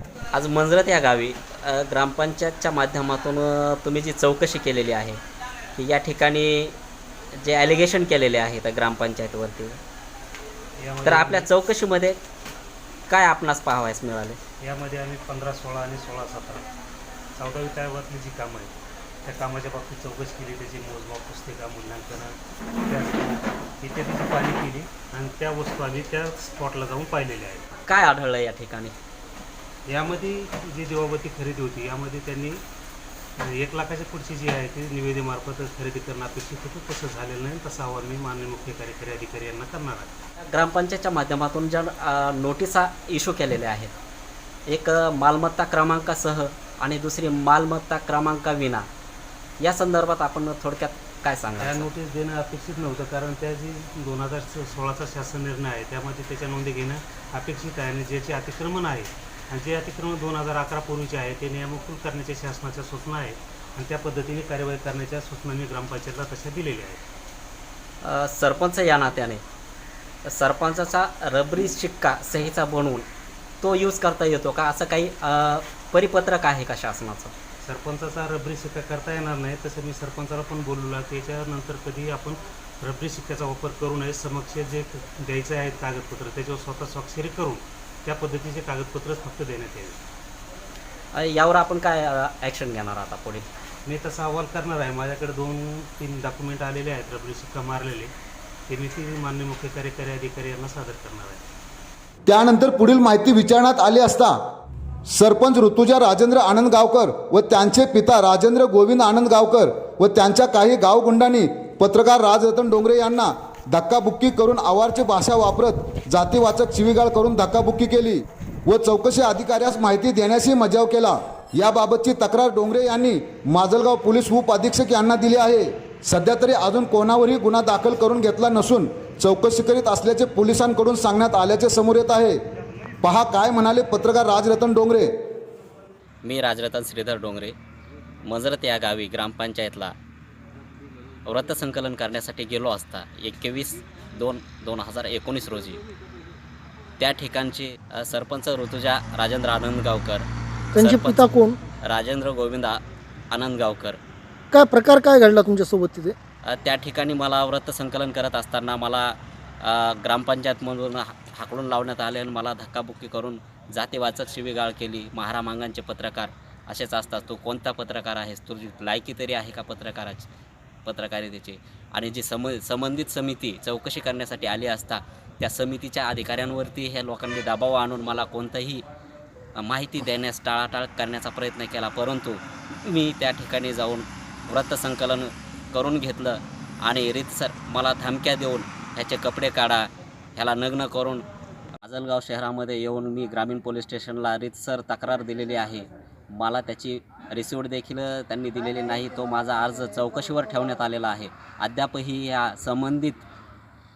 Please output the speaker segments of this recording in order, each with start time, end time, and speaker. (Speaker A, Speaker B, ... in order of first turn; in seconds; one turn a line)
Speaker A: 0.3-5.2
Speaker A: 5.8-6.8
Speaker A: 7.4-9.8
Speaker B: 10.8-11.5
Speaker A: 11.0-12.2
Speaker A: 13.1-14.4
Speaker B: 14.6-16.7
Speaker B: 17.3-18.7
Speaker B: 19.2-27.7
Speaker A: 27.8-28.9
Speaker B: 29.9-32.6
Speaker B: 33.4-40.1
Speaker A: 40.4-43.9
Speaker A: 44.7-48.9
Speaker A: 49.6-51.9
Speaker B: 51.6-67.0
Speaker A: 68.0-69.4
Speaker A: 70.2-73.0
Speaker A: 73.6-77.3
Speaker B: 77.6-90.0
Speaker A: 91.1-93.5
Speaker B: 93.8-98.1
Speaker B: 98.7-101.4
Speaker C: 102.2-104.3
Speaker C: 105.1-132.4
Speaker C: 133.0-135.1
Speaker A: 136.2-137.6
Speaker A: 138.2-139.9
Speaker A: 141.2-145.8
Speaker A: 147.0-151.3
Speaker D: 150.7-151.6
Speaker A: 151.8-154.0
Speaker D: 154.5-156.1
Speaker A: 156.4-170.3
Speaker A: 170.8-178.8
Speaker A: 179.6-191.2
Speaker A: 191.8-203.2